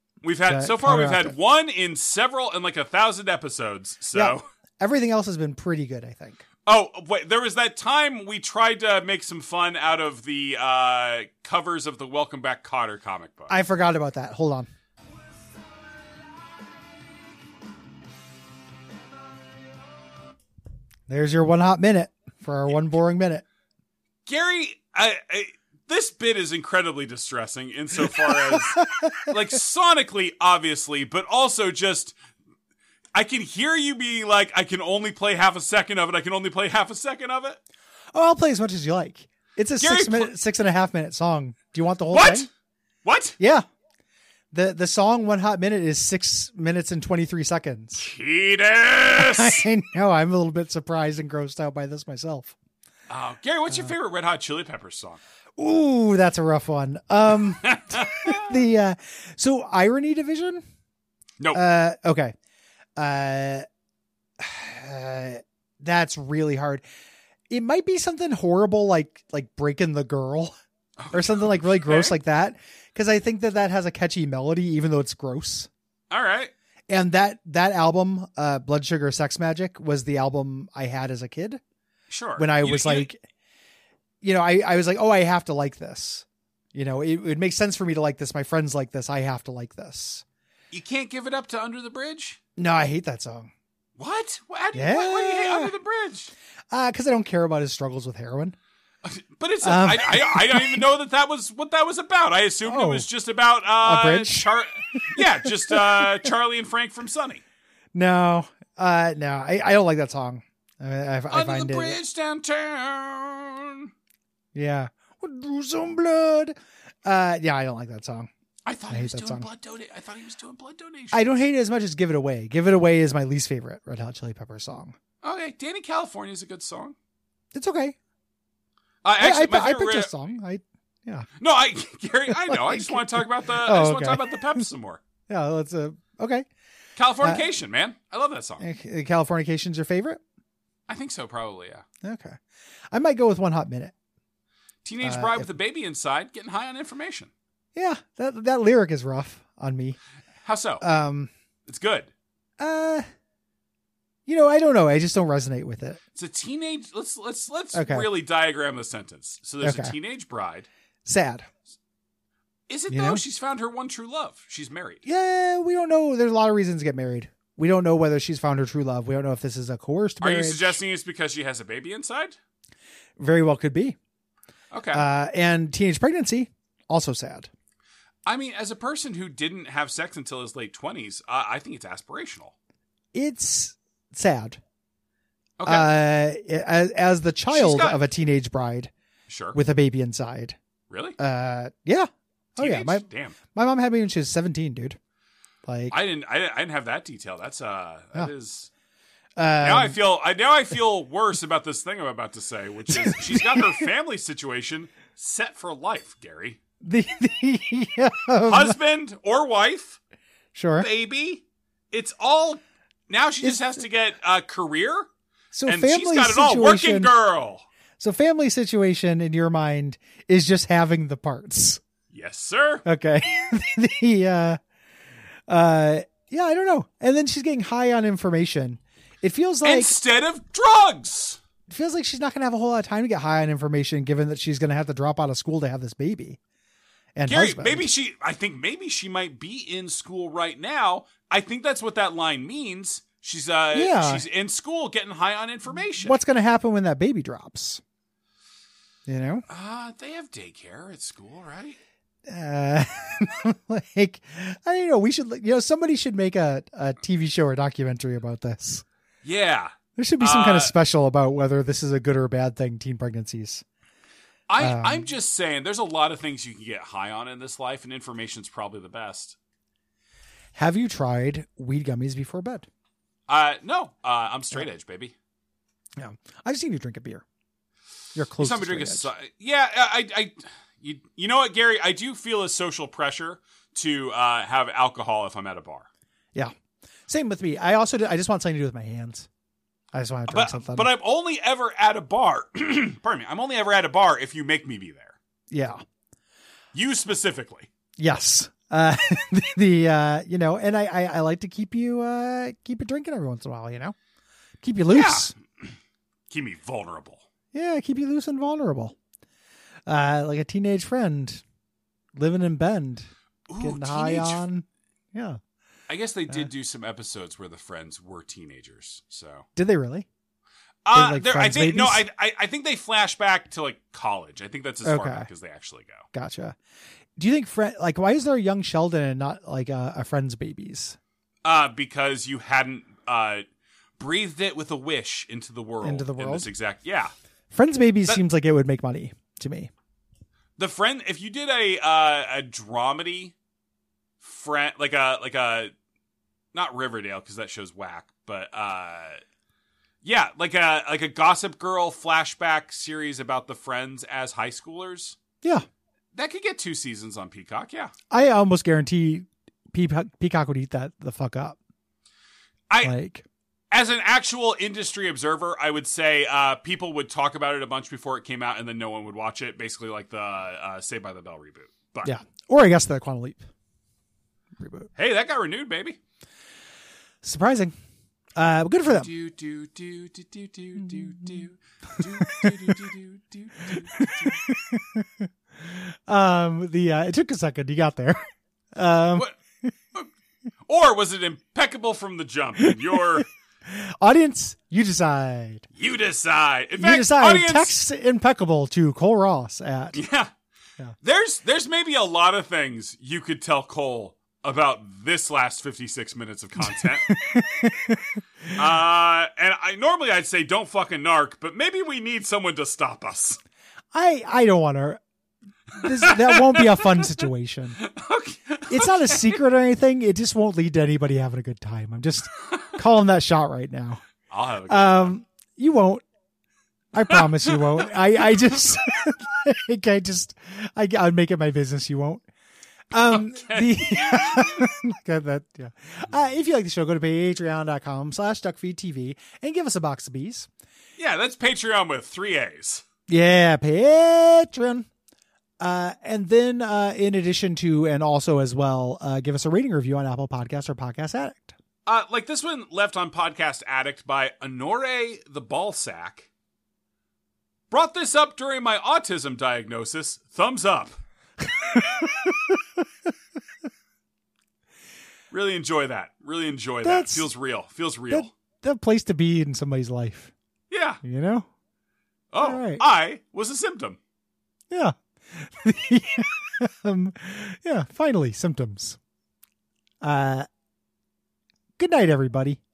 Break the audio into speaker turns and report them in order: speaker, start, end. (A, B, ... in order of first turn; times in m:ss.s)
0:00.2-0:04.4 A
0:00.4-0:01.3 B
0:04.1-0:06.4 B
0:06.6-0:13.5 A
0:13.5-0:14.7 B
0:21.1-0:23.4 B
0:24.2-0:32.2 A
0:28.1-0:29.3 B
0:33.1-0:37.6 A
0:38.1-0:42.5 B
0:39.8-0:40.3 A
0:42.1-0:42.5 A
0:43.0-0:43.4 A
0:43.4-0:43.6 B
0:44.5-0:48.0 B
0:48.0-0:49.6 A
0:49.2-0:52.5 B
0:53.1-0:55.2 A
0:55.6-1:00.6 B
0:57.6-0:58.5 A
1:01.5-1:02.3 B
1:03.0-1:03.6 B
1:04.4-1:06.8 B
1:07.5-1:10.5 B
1:11.0-1:12.2 A
1:11.1-1:15.7 B
1:16.1-1:16.5 A
1:16.9-1:21.6 B
1:22.1-1:23.1 A
1:22.4-1:23.2 B
1:24.2-1:30.2 B
1:30.7-1:32.4 A
1:32.6-1:33.5 B
1:34.0-1:36.3 A
1:34.7-1:35.7 B
1:36.7-1:38.6 B
1:39.0-1:47.4 A
1:39.6-1:40.9 B
1:42.6-1:43.1 B
1:43.8-1:44.5 B
1:45.2-1:46.0 B
1:47.9-1:52.0 B
1:51.3-1:53.9 A
1:54.5-1:58.3 B
1:58.6-2:01.4 A
1:58.9-1:59.5 B
2:01.1-2:05.0 B
2:05.2-2:07.0 A
2:07.5-2:08.0 B
2:09.0-2:10.1 A
2:09.2-2:11.2 B
2:11.4-2:15.0 A
2:12.3-2:14.6 B
2:15.3-2:16.4 B
2:17.0-2:18.6 A
2:18.6-2:20.2 B
2:20.9-2:21.8 A
2:22.0-2:22.4 B
2:22.9-2:23.9 B
2:24.8-2:27.3 A
2:25.0-2:25.5 B
2:27.7-2:30.0 B
2:30.4-2:30.8 A
2:30.8-2:31.3 B
2:31.7-2:32.1 A
2:32.6-2:33.0 B
2:34.2-2:36.0 B
2:36.1-2:40.7 A
2:37.7-2:38.1 B
2:39.6-2:39.9 B
2:41.0-2:41.5 B
2:42.7-2:45.0 A
2:42.9-2:43.2 B
2:45.0-2:50.8 B
2:50.2-2:52.4 A
2:53.2-2:54.0 B
2:54.7-2:55.0 A
2:54.9-2:57.5 B
2:58.2-3:02.5 A
3:03.1-3:04.6 B
3:05.6-3:05.9 A
3:05.7-3:08.9 B
3:07.5-3:08.0 A
3:09.3-3:09.6 A
3:09.5-3:10.6 B
3:10.9-3:11.2 A
3:11.2-3:15.0 B
3:12.6-3:13.4 A
3:15.6-3:15.9 B
3:15.9-3:18.7 A
3:19.4-3:20.0 B
3:19.6-3:26.6 A
3:22.9-3:23.9 B
3:26.8-3:28.8 B
3:28.4-3:30.0 A
3:30.5-3:30.9 B
3:30.8-3:35.1 A
3:35.5-3:37.1 B
3:35.6-3:37.6 A
3:38.0-3:41.8 B
3:42.1-3:42.8 A
3:42.8-3:44.6 B
3:45.5-3:49.9 B
3:49.6-3:51.4 A
3:51.7-3:56.4 B
3:57.2-3:57.9 B
3:57.3-4:06.2 A
4:03.7-4:04.2 B
4:06.0-4:07.8 B
4:09.1-4:09.4 B
4:09.5-4:11.8 A
4:12.2-4:18.8 B
4:19.2-4:20.7 A
4:20.0-4:23.6 B
4:24.5-4:29.4 A
4:24.6-4:25.1 B
4:30.5-4:32.7 B
4:33.3-4:35.1 A
4:36.0-4:37.2 B
4:38.1-4:39.1 B
4:38.4-4:45.9 A
4:47.1-4:49.3 B
4:49.9-4:50.9 B
4:50.3-4:55.2 A
4:55.5-4:55.8 B
4:56.7-4:57.7 A
4:58.0-5:04.0 B
5:04.6-5:05.3 B
5:04.9-5:05.8 A
5:06.3-5:07.2 A
5:07.5-5:09.0 B
5:09.9-5:11.4 B
5:12.2-5:15.4 B
5:13.5-5:14.4 A
5:15.9-5:19.5 A
5:19.6-5:20.1 B
5:20.8-5:26.1 A
5:20.9-5:22.0 B
5:24.8-5:25.3 B
5:26.1-5:26.6 B
5:27.2-5:31.0 B
5:31.4-5:33.4 A
5:34.0-5:37.1 A
5:35.8-5:36.5 B
5:37.5-5:39.7 B
5:40.6-5:43.3 A
5:44.2-5:45.7 A
5:46.5-5:49.2 A
5:50.0-5:55.2 A
5:56.1-5:57.9 A
5:58.1-6:01.6 B
6:02.7-6:02.9 A
6:02.8-6:03.2 B
6:03.7-6:12.1 A
6:12.0-6:13.5 B
6:14.6-6:14.9 B
6:14.9-6:16.0 A
6:17.2-6:17.7 B
6:18.4-6:19.1 B
6:18.8-6:24.5 A
6:22.1-6:22.8 B
6:23.7-6:28.2 B
6:28.7-6:29.7 B
6:30.7-6:33.3 A
6:32.6-6:35.6 B
6:35.7-6:37.8 A
6:36.8-6:40.0 B
6:39.9-6:40.3 A
6:41.0-6:47.1 A
6:46.6-6:48.1 B
6:48.5-6:53.4 A
6:53.9-6:55.0 B
6:55.7-6:57.8 B
6:55.8-6:57.0 A
6:57.8-6:59.4 A
6:58.7-7:04.0 B
7:04.3-7:05.1 A
7:04.7-7:06.0 B
7:06.9-7:12.2 B
7:07.1-7:07.6 A
7:12.9-7:20.5 B
7:13.1-7:14.7 A
7:21.0-7:22.8 A
7:23.1-7:24.9 B
7:25.6-7:31.6 B
7:31.8-7:36.3 A
7:37.7-7:41.0 A
7:41.4-7:42.6 B
7:45.3-7:48.3 A
7:46.8-7:47.3 B
7:48.1-7:50.3 B
7:50.7-7:51.0 A
7:51.0-7:51.5 B
7:52.3-7:54.0 A
7:52.4-7:52.8 B
7:54.7-7:59.0 B
8:00.0-8:00.5 B
8:01.8-8:02.6 B